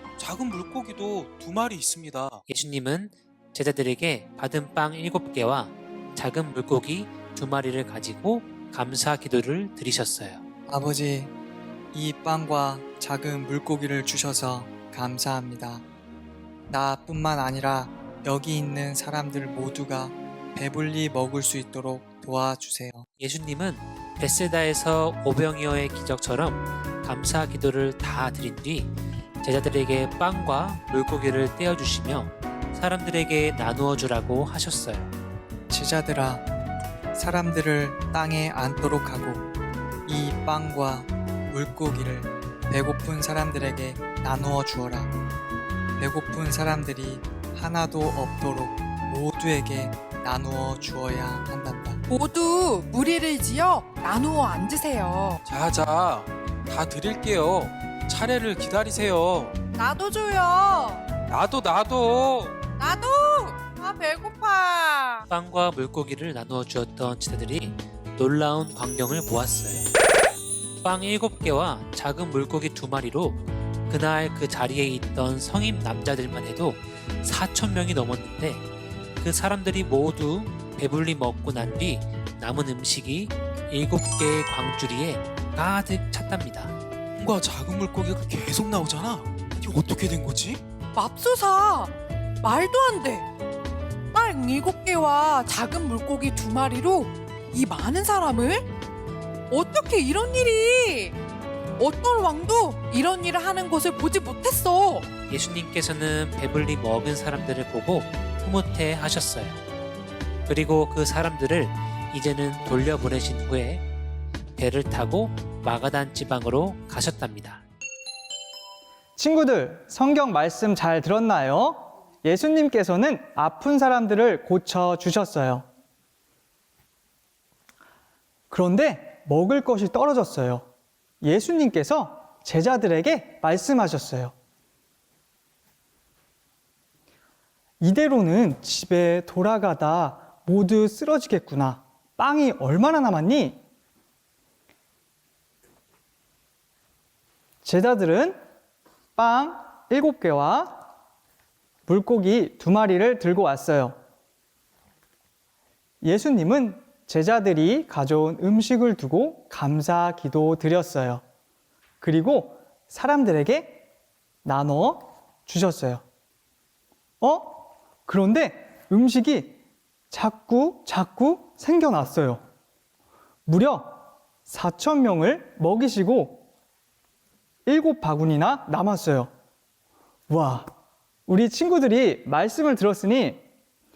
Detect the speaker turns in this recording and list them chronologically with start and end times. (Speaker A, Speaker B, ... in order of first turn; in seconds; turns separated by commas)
Speaker A: 0.2-2.4, Speaker B: 2.5-10.4, Speaker C: 10.7-11.3, Speaker C: 11.9-15.8, Speaker C: 16.7-23.1, Speaker B: 23.2-35.1, Speaker C: 35.7-36.5, Speaker C: 37.1-39.4, Speaker C: 40.0-45.1, Speaker C: 46.0-52.0, Speaker D: 52.1-55.4, Speaker A: 55.4-59.6, Speaker D: 59.8-61.0, Speaker A: 61.3-62.5, Speaker D: 62.8-65.2, Speaker B: 65.3-69.9, Speaker B: 70.8-78.6, Speaker B: 79.2-86.7, Speaker A: 87.2-90.6, Speaker D: 90.9-93.2, Speaker D: 94.1-98.7, Speaker D: 99.5-101.2, Speaker D: 101.8-105.1, Speaker B: 105.3-109.6, Speaker B: 110.5-113.8, Speaker B: 114.6-117.6, Speaker E: 119.2-125.7, Speaker E: 128.5-130.7, Speaker E: 131.2-134.3, Speaker E: 137.8-143.6, Speaker E: 147.6-148.4, Speaker E: 149.2-150.8, Speaker E: 151.9-154.0, Speaker E: 156.0-161.2, Speaker E: 162.0-163.8, Speaker E: 164.4-166.0, Speaker E: 167.2-169.6, Speaker E: 170.1-172.4, Speaker E: 173.5-176.4, Speaker E: 177.7-179.3, Speaker E: 180.3-180.7, Speaker E: 181.3-183.4